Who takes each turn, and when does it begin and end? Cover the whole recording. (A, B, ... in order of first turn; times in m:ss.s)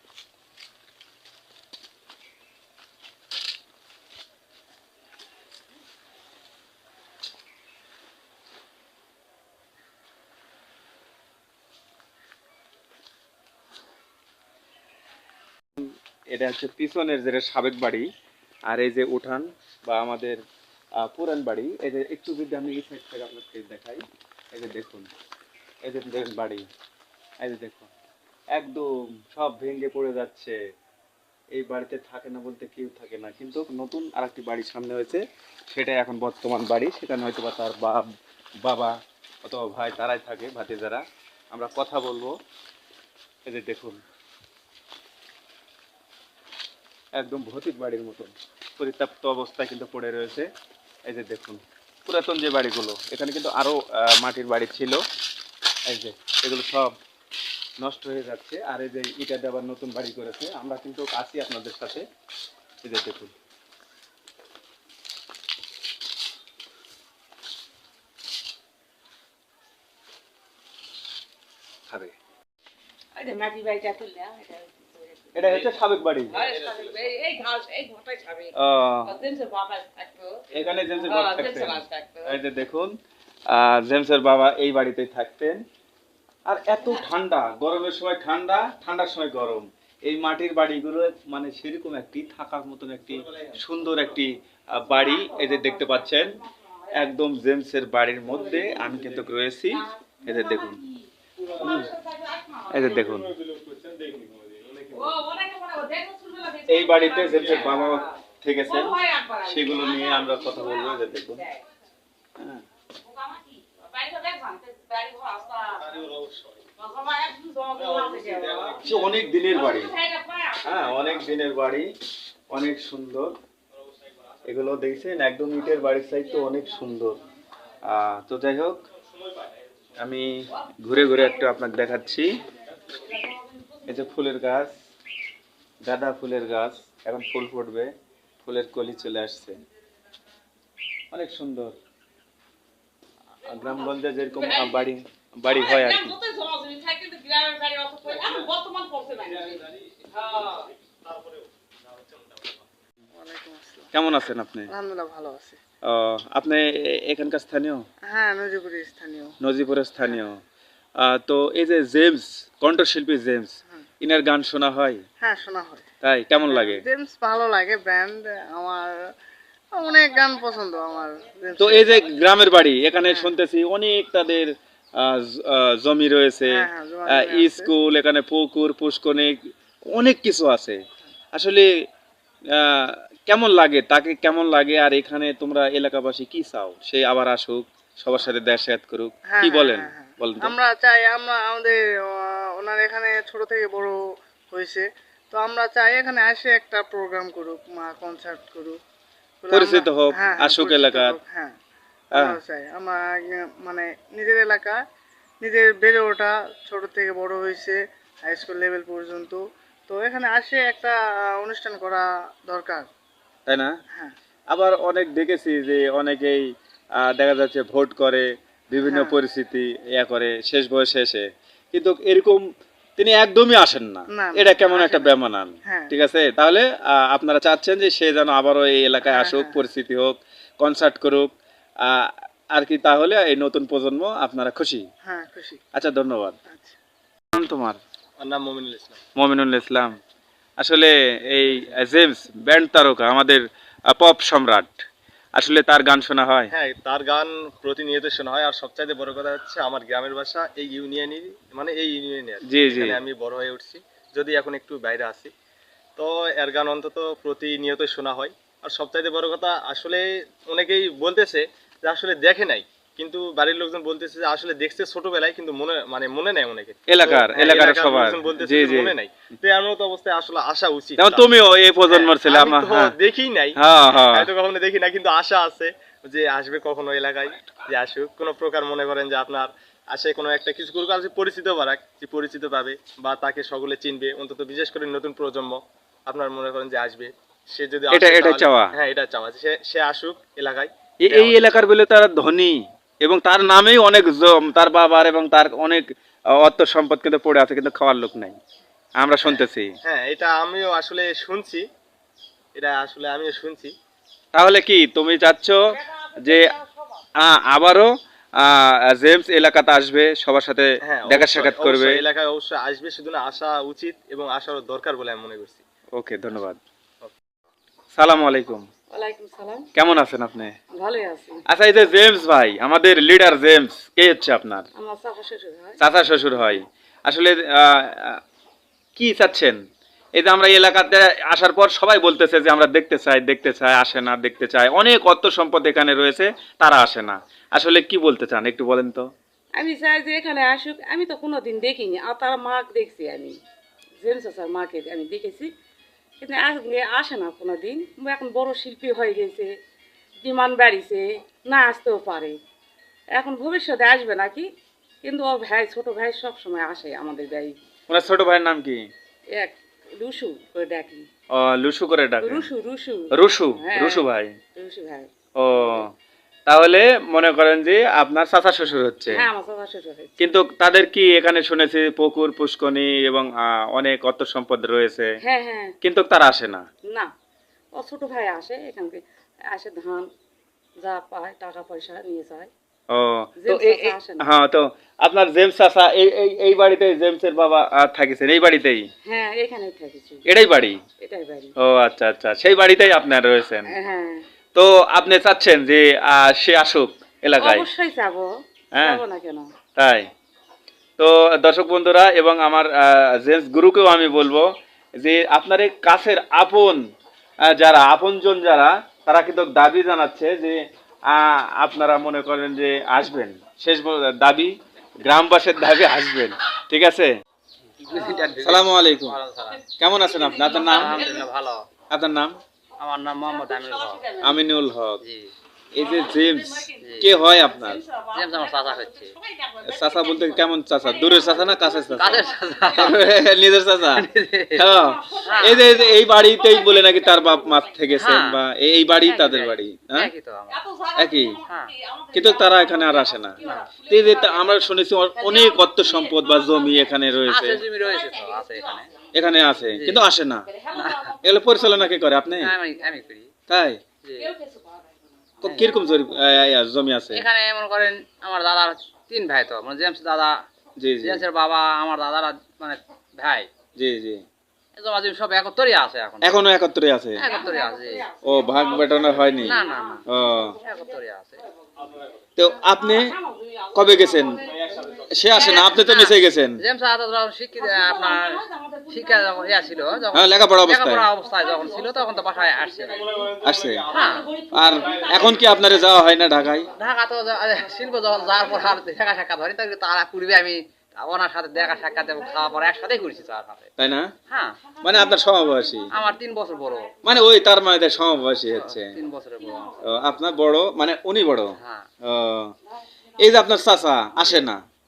0:15.8-0:18.1 A
0:18.7-0:20.4 A
0:21.0-0:25.1 A
0:25.8-0:26.7 A
0:27.4-0:27.9 A
0:28.5-0:30.6 A
0:31.5-0:38.1 A
0:38.6-0:42.4 A
0:43.5-0:44.0 A
0:47.2-0:50.5 A
0:51.0-0:55.0 A
0:55.9-0:57.0 A
0:57.8-1:02.1 A
1:02.8-1:03.3 A
1:11.9-1:12.2 A
1:13.2-1:13.6 B
1:14.3-1:15.0 B
1:15.3-1:16.4 A
1:16.3-1:18.5 C
1:18.6-1:19.2 A
1:19.1-1:20.4 C
1:20.5-1:23.0 A
1:21.0-1:22.3 C
1:23.5-1:25.6 A
1:26.5-1:36.4 A
1:36.9-1:40.8 A
1:41.6-1:41.9 A
1:42.7-1:43.4 A
1:43.4-1:45.1 D
1:46.7-1:51.5 A
1:52.4-1:52.6 A
1:55.8-1:56.6 D
1:57.8-1:58.8 D
1:58.8-1:59.9 A
2:00.6-2:01.9 A
2:02.5-2:03.4 A
2:04.4-2:07.2 A
2:07.8-2:08.8 A
2:10.0-2:12.3 A
2:13.8-2:14.7 A
2:15.8-2:17.9 A
2:18.4-2:19.6 A
2:21.1-2:21.8 A
2:23.5-2:26.3 A
2:31.0-2:32.6 D
2:33.2-2:33.9 E
2:33.9-2:34.7 A
2:34.7-2:35.6 E
2:35.8-2:37.9 A
2:38.1-2:39.4 E
2:39.4-2:40.4 A
2:41.0-2:45.0 A
2:45.2-2:45.8 E
2:46.0-2:46.8 A
2:46.5-2:49.0 E
2:49.8-2:52.0 E
2:51.6-2:59.4 A
2:53.0-2:53.3 E
2:56.5-2:57.7 E
2:59.9-3:00.8 A
3:01.3-3:01.7 A
3:02.5-3:10.5 A
3:09.3-3:14.0 E
3:14.5-3:18.8 E
3:19.4-3:21.6 E
3:19.5-3:21.1 A
3:22.1-3:24.8 E
3:25.4-3:32.9 E
3:33.5-3:33.8 A
3:34.5-3:36.4 A
3:37.0-3:42.4 A
3:38.8-3:39.2 E
3:43.0-3:54.9 A
3:44.1-3:45.9 E
3:49.0-3:49.6 E
3:55.1-3:55.6 E
3:55.7-3:56.4 A
3:57.3-3:57.8 A
3:58.2-3:59.1 D
3:59.1-4:00.0 A
4:00.6-4:06.5 A
4:06.5-4:15.3 D
4:12.4-4:13.0 A
4:16.0-4:31.3 D
4:26.9-4:28.9 A
4:31.0-4:33.0 A
4:31.9-4:51.7 D
4:33.6-4:34.3 A
4:47.9-4:48.7 A
4:51.0-4:58.4 A
4:59.0-4:59.8 A
4:59.3-5:01.7 D
5:02.6-5:03.8 D
5:04.3-5:06.6 A
5:07.2-5:12.0 A
5:10.8-5:15.6 D
5:15.9-5:16.6 A
5:17.9-5:18.7 A
5:18.9-5:19.7 B
5:19.8-5:20.6 A
5:20.8-5:21.4 B
5:21.5-5:24.7 A
5:24.8-5:25.8 B
5:25.8-5:28.2 A
5:29.0-5:29.6 A
5:30.2-5:39.1 A
5:39.6-5:43.4 B
5:44.0-5:45.5 B
5:46.2-5:49.5 B
5:50.2-5:52.4 B
5:53.2-5:54.5 B
5:55.0-5:57.6 B
5:57.9-5:58.8 A
5:59.4-6:01.1 B
6:01.4-6:02.5 A
6:02.2-6:03.1 B
6:03.1-6:04.4 A
6:03.6-6:04.1 B
6:04.6-6:05.1 B
6:05.4-6:05.9 A
6:06.5-6:09.2 A
6:09.1-6:10.2 B
6:10.2-6:15.2 A
6:15.2-6:15.7 B
6:15.8-6:16.7 A
6:17.8-6:20.1 B
6:20.8-6:22.5 B
6:22.9-6:28.9 A
6:23.4-6:24.3 B
6:29.1-6:30.2 B
6:30.3-6:30.8 A
6:31.0-6:31.5 B
6:31.6-6:33.7 A
6:33.7-6:34.2 B
6:34.5-6:37.7 A
6:37.4-6:39.5 B
6:38.8-6:39.0 A
6:39.8-6:40.1 A
6:41.0-6:46.8 A
6:47.5-6:57.2 A
6:57.8-6:59.7 C
6:58.4-6:59.2 A
6:59.7-7:00.9 A
7:00.5-7:01.6 C
7:01.9-7:02.4 A
7:02.8-7:04.2 C
7:04.2-7:05.0 A
7:05.0-7:05.3 C
7:05.7-7:07.9 A
7:06.8-7:07.2 C
7:08.0-7:09.2 C
7:09.6-7:12.3 A
7:12.0-7:13.1 C
7:12.8-7:14.0 A
7:13.9-7:14.7 C
7:14.6-7:20.1 A
7:15.2-7:15.8 C
7:18.0-7:18.4 C
7:19.0-7:20.6 C
7:20.9-7:21.4 A
7:21.4-7:21.7 C
7:22.1-7:27.6 A
7:23.4-7:23.8 C
7:27.2-7:29.0 C
7:29.1-7:30.5 A
7:29.8-7:30.1 C
7:30.6-7:31.2 C
7:31.2-7:32.5 A
7:32.3-7:33.3 C
7:33.5-7:33.8 A
7:34.0-7:34.3 C
7:35.4-7:37.2 A
7:35.4-7:35.7 C
7:37.1-7:40.4 C
7:40.8-7:41.2 A
7:41.0-7:43.5 C
7:43.8-7:44.2 A
7:44.8-7:46.4 C
7:46.2-7:47.2 A
7:47.2-7:48.2 C
7:48.2-7:49.6 A
7:49.4-7:50.0 C
7:50.1-7:50.6 A
7:50.6-7:51.4 C
7:52.4-7:53.2 A
7:53.7-7:54.4 A
7:55.1-7:56.6 A
7:55.4-8:03.2 C
8:00.1-8:01.1 A
8:03.4-8:03.9 A
8:03.9-8:05.2 C
8:04.5-8:06.7 A
8:06.8-8:13.7 C
8:13.8-8:14.1 A
8:14.3-8:14.7 C
8:14.8-8:15.9 A
8:15.9-8:17.0 C
8:17.0-8:19.0 A
8:18.5-8:19.8 C
8:19.8-8:22.5 A
8:21.6-8:21.9 C
8:23.2-8:24.6 A